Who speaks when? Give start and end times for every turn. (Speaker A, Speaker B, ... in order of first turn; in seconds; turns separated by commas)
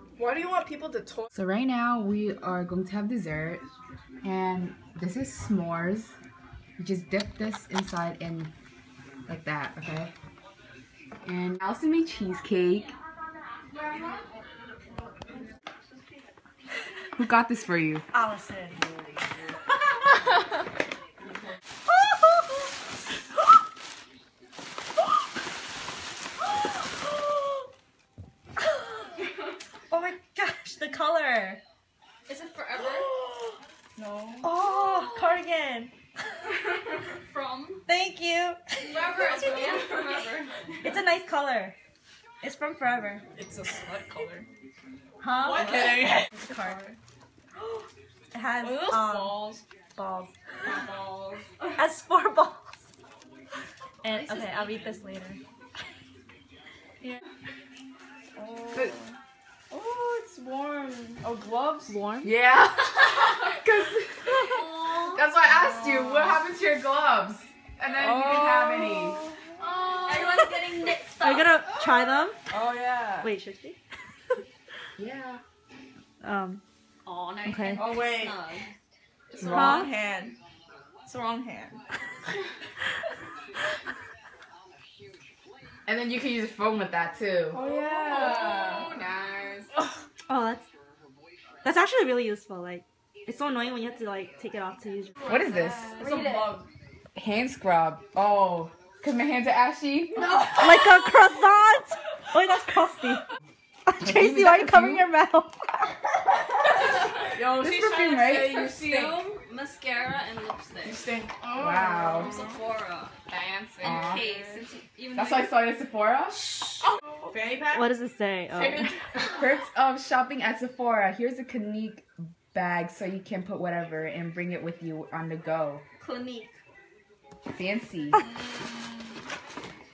Speaker A: 0.2-1.3, Speaker B: 1.3-3.6, Speaker B: 4.2-6.1, Speaker B: 6.8-8.5, Speaker B: 9.3-10.1, Speaker B: 11.2-12.9, Speaker B: 17.2-18.0, Speaker C: 18.1-19.2, Speaker C: 28.6-28.9, Speaker C: 29.9-31.6, Speaker D: 32.3-33.1, Speaker C: 33.2-33.5, Speaker A: 34.0-34.5, Speaker C: 34.4-35.9, Speaker D: 34.4-35.4, Speaker D: 36.7-37.9, Speaker C: 37.9-39.1, Speaker D: 38.8-40.6, Speaker A: 39.1-40.4, Speaker C: 40.8-41.8, Speaker C: 42.4-43.2, Speaker A: 43.3-44.5, Speaker C: 45.2-46.8, Speaker A: 45.4-47.0, Speaker D: 45.5-46.8, Speaker C: 48.3-50.3, Speaker A: 48.6-49.6, Speaker D: 48.8-49.4, Speaker D: 50.6-51.5, Speaker A: 50.6-51.4, Speaker C: 51.7-52.7, Speaker C: 54.0-55.4, Speaker D: 54.0-55.0, Speaker A: 58.4-59.1, Speaker A: 59.7-62.0, Speaker D: 61.9-62.3, Speaker B: 62.2-69.2, Speaker D: 64.2-66.4, Speaker A: 65.7-66.2, Speaker A: 67.9-70.3, Speaker D: 69.6-71.6, Speaker C: 71.2-72.4, Speaker A: 72.5-73.3, Speaker C: 73.2-73.8, Speaker B: 75.0-75.4, Speaker C: 76.2-76.6, Speaker D: 77.0-78.7, Speaker C: 77.4-78.1, Speaker A: 77.7-78.4, Speaker D: 79.3-80.0, Speaker A: 79.4-80.3, Speaker C: 79.4-79.9, Speaker A: 81.0-81.8, Speaker B: 85.9-89.5, Speaker A: 87.5-89.0, Speaker D: 88.1-88.8, Speaker C: 90.3-90.6, Speaker C: 91.6-95.2, Speaker A: 95.2-96.7, Speaker B: 95.2-96.0, Speaker D: 96.0-96.6, Speaker B: 97.1-100.3, Speaker D: 100.2-101.2, Speaker A: 100.3-100.6, Speaker C: 100.5-103.2, Speaker C: 103.8-105.9, Speaker B: 104.0-105.1, Speaker D: 106.9-111.1, Speaker A: 107.3-109.3, Speaker B: 107.3-108.8, Speaker A: 110.8-112.6, Speaker B: 111.5-112.4, Speaker D: 112.1-113.2, Speaker A: 113.7-114.6, Speaker B: 113.8-114.3, Speaker D: 113.8-115.5, Speaker B: 115.1-116.5, Speaker D: 116.4-116.8, Speaker A: 117.2-117.8, Speaker C: 117.7-118.9, Speaker A: 118.6-119.3, Speaker B: 119.3-125.8, Speaker D: 126.0-126.5, Speaker B: 127.5-128.2, Speaker D: 128.2-129.1